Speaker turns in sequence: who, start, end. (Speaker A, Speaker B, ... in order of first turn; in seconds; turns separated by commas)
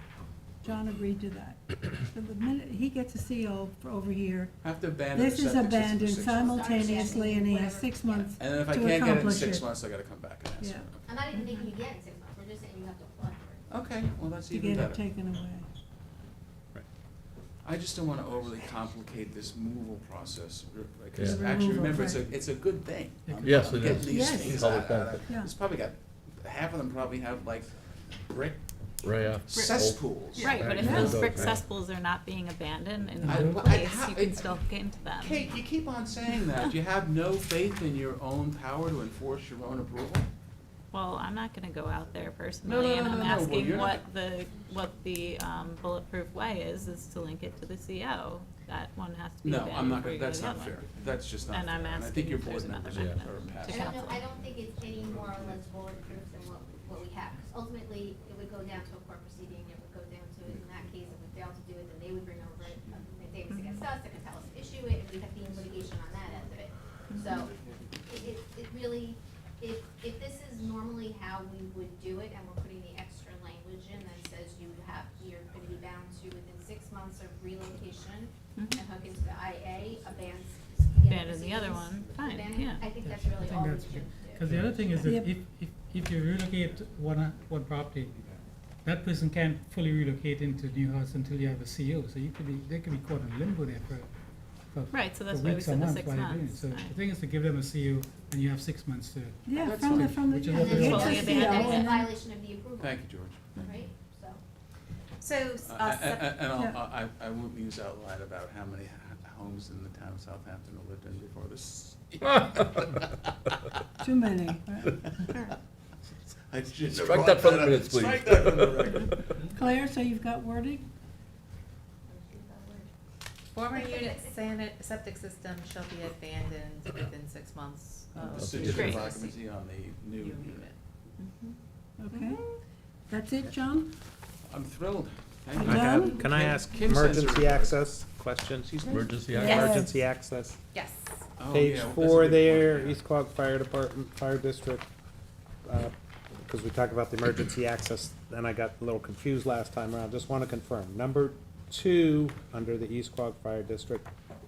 Speaker A: 0.6-4.5, Speaker B: 4.6-6.9, Speaker A: 5.1-9.7, Speaker C: 6.3-8.4, Speaker B: 8.3-11.0, Speaker A: 10.6-10.9, Speaker C: 11.1-13.7, Speaker D: 11.3-11.7, Speaker B: 13.7-15.0, Speaker A: 14.5-15.7, Speaker B: 17.6-28.6, Speaker E: 21.1-21.5, Speaker A: 21.2-22.2, Speaker F: 23.2-23.7, Speaker E: 23.4-25.3, Speaker A: 24.0-24.6, Speaker A: 25.2-25.5, Speaker E: 29.0-30.4, Speaker B: 29.4-31.0, Speaker D: 30.4-35.5, Speaker A: 30.4-31.2, Speaker F: 30.5-31.5, Speaker E: 31.0-31.6, Speaker F: 33.2-33.7, Speaker B: 33.2-40.3, Speaker D: 40.9-54.2, Speaker B: 42.6-44.0, Speaker B: 49.4-54.1, Speaker E: 52.9-53.2, Speaker C: 53.7-67.5, Speaker D: 63.5-63.9, Speaker C: 68.0-85.1, Speaker D: 78.5-78.8, Speaker D: 81.1-82.9, Speaker F: 83.0-88.2, Speaker A: 85.0-85.3, Speaker F: 88.8-94.1, Speaker F: 94.7-101.4, Speaker D: 94.9-96.9, Speaker A: 99.4-102.1, Speaker B: 99.5-100.3, Speaker C: 100.5-103.0, Speaker D: 100.7-102.0, Speaker B: 102.8-103.7, Speaker C: 103.5-104.4, Speaker G: 105.2-106.5, Speaker B: 105.6-113.1, Speaker E: 112.3-112.8, Speaker A: 114.0-115.2, Speaker D: 115.3-115.6, Speaker B: 116.5-119.6, Speaker E: 116.9-119.4, Speaker A: 119.5-120.8, Speaker C: 122.1-122.8, Speaker G: 123.5-129.4, Speaker C: 123.8-124.2, Speaker B: 128.2-130.7, Speaker E: 128.3-128.9, Speaker D: 128.5-129.0, Speaker G: 130.1-130.8, Speaker D: 131.2-131.6, Speaker A: 132.0-132.4, Speaker A: 133.1-133.9, Speaker B: 134.4-137.8, Speaker A: 135.5-136.2, Speaker H: 135.6-138.8, Speaker B: 138.6-139.2, Speaker E: 138.9-139.6, Speaker A: 139.3-140.0, Speaker H: 139.3-140.6, Speaker G: 139.4-139.8, Speaker G: 140.7-141.2, Speaker B: 141.4-143.0, Speaker H: 141.5-144.9, Speaker H: 145.6-154.1